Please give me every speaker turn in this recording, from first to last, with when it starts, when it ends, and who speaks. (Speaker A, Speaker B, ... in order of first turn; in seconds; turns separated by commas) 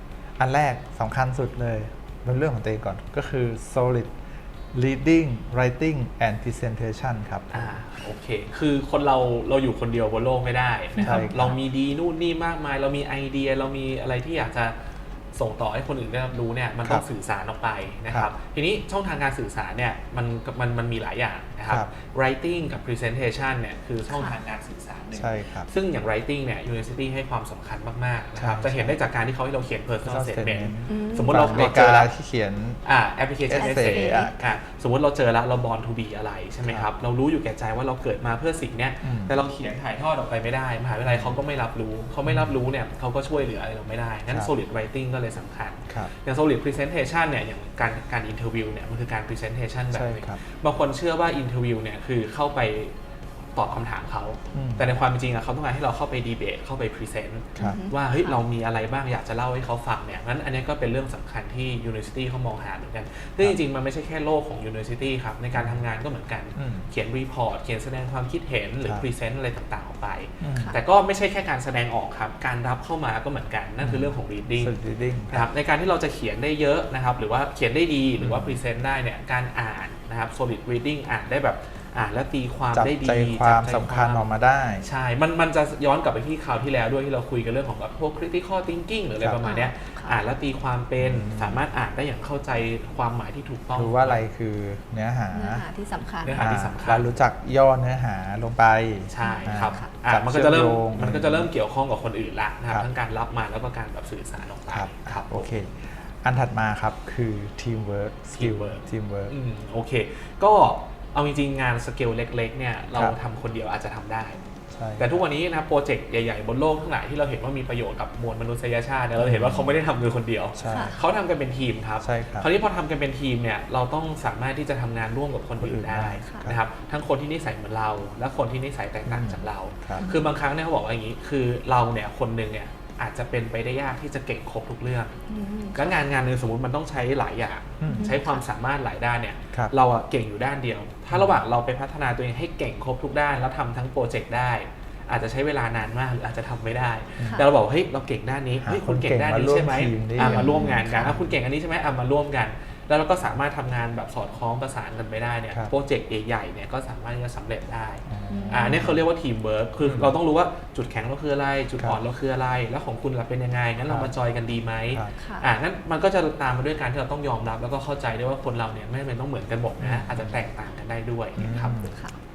Speaker A: 0.4-4.2, Speaker A: 4.7-7.8, Speaker B: 7.5-14.8, Speaker C: 10.9-11.5, Speaker A: 11.0-11.6, Speaker B: 15.3-32.1, Speaker C: 24.1-24.4, Speaker A: 25.1-25.7, Speaker A: 28.4-29.0, Speaker A: 30.0-32.8, Speaker C: 30.9-31.7, Speaker B: 32.8-52.9, Speaker A: 33.5-34.3, Speaker C: 33.6-34.3, Speaker A: 39.0-39.4, Speaker A: 41.0-41.4, Speaker A: 42.2-42.5, Speaker A: 49.9-50.4, Speaker B: 53.5-74.7, Speaker A: 54.5-54.9, Speaker A: 57.6-57.8, Speaker C: 57.6-58.4, Speaker A: 65.5-65.8, Speaker A: 66.5-66.9, Speaker A: 70.4-70.8, Speaker A: 73.8-75.5, Speaker B: 75.3-84.2, Speaker A: 78.2-78.6, Speaker A: 82.7-84.9, Speaker B: 84.8-94.2, Speaker A: 89.2-89.4, Speaker C: 89.4-90.2, Speaker A: 91.0-91.6, Speaker A: 93.7-95.7, Speaker C: 95.3-96.4, Speaker B: 96.2-97.2, Speaker A: 96.3-101.5, Speaker B: 99.1-105.5, Speaker C: 99.2-99.9, Speaker A: 104.7-109.3, Speaker B: 108.3-114.4, Speaker A: 114.7-115.2, Speaker B: 115.0-135.1, Speaker A: 119.2-119.7, Speaker A: 120.5-121.0, Speaker C: 120.7-121.0, Speaker A: 122.0-122.5, Speaker A: 125.6-126.6, Speaker A: 129.0-130.1, Speaker C: 130.0-130.3, Speaker C: 135.3-136.0, Speaker B: 135.7-171.9, Speaker A: 137.8-138.1, Speaker C: 137.9-138.4, Speaker A: 148.6-151.3, Speaker C: 150.2-151.2, Speaker A: 158.1-159.0, Speaker C: 158.3-158.9, Speaker A: 159.8-160.1, Speaker A: 163.9-164.1, Speaker C: 165.2-165.5, Speaker A: 169.8-170.4, Speaker C: 171.3-172.1, Speaker A: 171.4-171.9